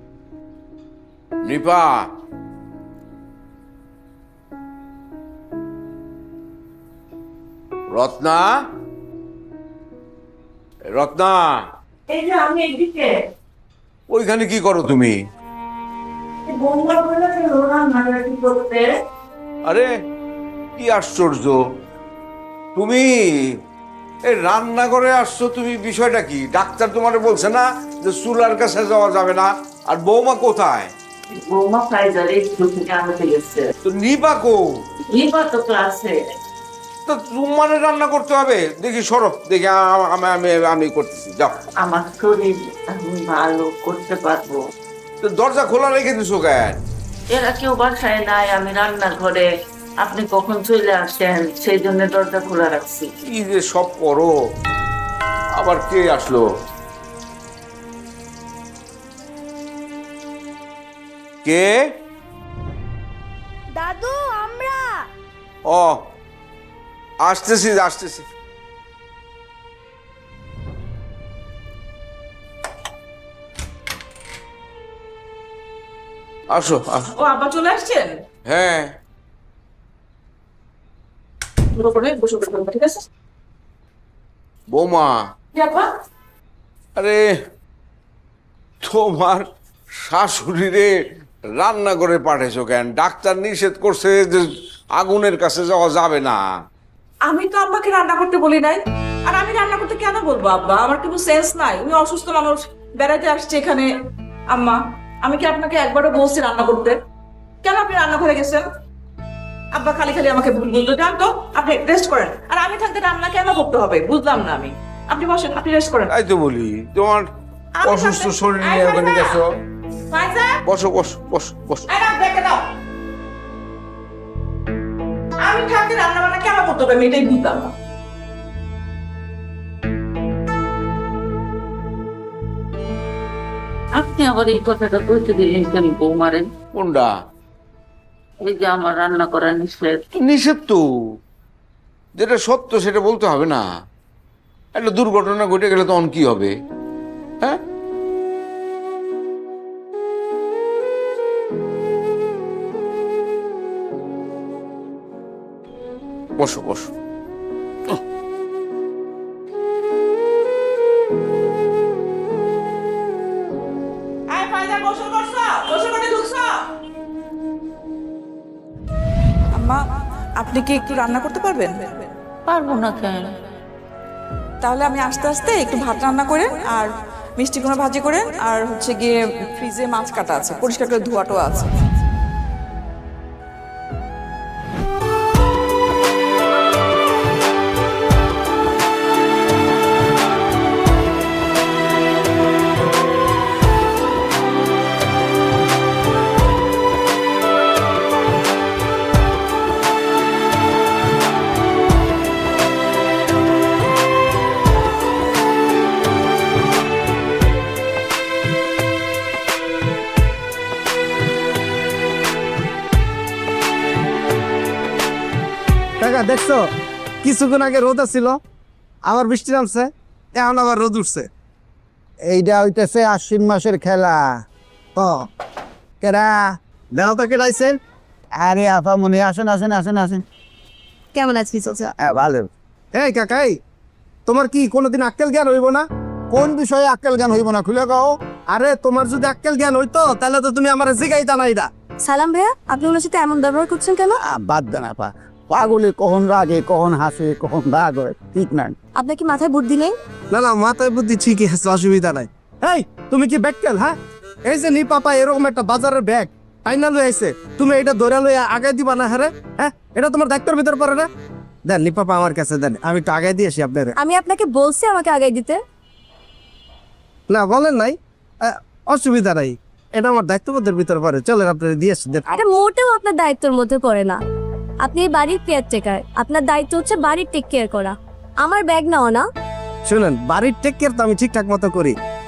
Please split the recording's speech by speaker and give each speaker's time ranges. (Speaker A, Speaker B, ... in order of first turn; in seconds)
Speaker A: 1.4-2.1, 7.9-8.5, 10.9-11.6, 14.1-15.2, 20.8-21.6, 22.8-23.1, 24.2-30.9, 33.8-34.7, 37.1-41.6, 45.2-46.8, 53.3-54.3, 55.5-56.4, 61.4-61.7, 65.7-66.0, 67.2-68.2, 76.5-77.1, 78.5-78.9, 84.7-85.2, 87.0-87.2, 88.8-89.4, 90.1-90.9, 91.5-96.4, 116.1-117.3, 117.8-119.5, 120.6-121.8, 136.7-137.1, 140.2-140.8, 142.2-143.6, 144.7-146.5, 156.4-156.9
Speaker B: 31.5-33.6, 35.1-36.1, 41.8-44.6, 47.3-49.4, 50.0-53.0, 134.0-136.5, 138.4-140.0, 172.5-173.3
Speaker C: 63.9-64.4, 242.0-244.2, 249.0-250.0, 264.0-265.6, 272.3-274.2, 274.8-279.2
Speaker D: 77.2-78.1, 81.8-83.0, 85.6-85.9, 97.2-103.9, 104.5-107.0, 107.6-108.7, 109.7-116.1, 117.8-119.4, 120.1-120.6, 121.9-122.6, 125.4-127.7, 164.3-166.7, 169.6-172.1, 174.6-181.8
Speaker E: 216.0-216.6, 217.2-218.4, 219.1-221.3, 225.0-225.3, 226.9-227.8, 232.9-233.6, 234.3-235.8, 238.6-241.7, 250.3-261.1, 261.7-263.9, 267.3-272.3, 279.9-281.9
Speaker F: 222.3-224.3, 226.0-226.3, 228.4-230.2, 232.0-232.5, 236.3-238.1, 244.2-248.8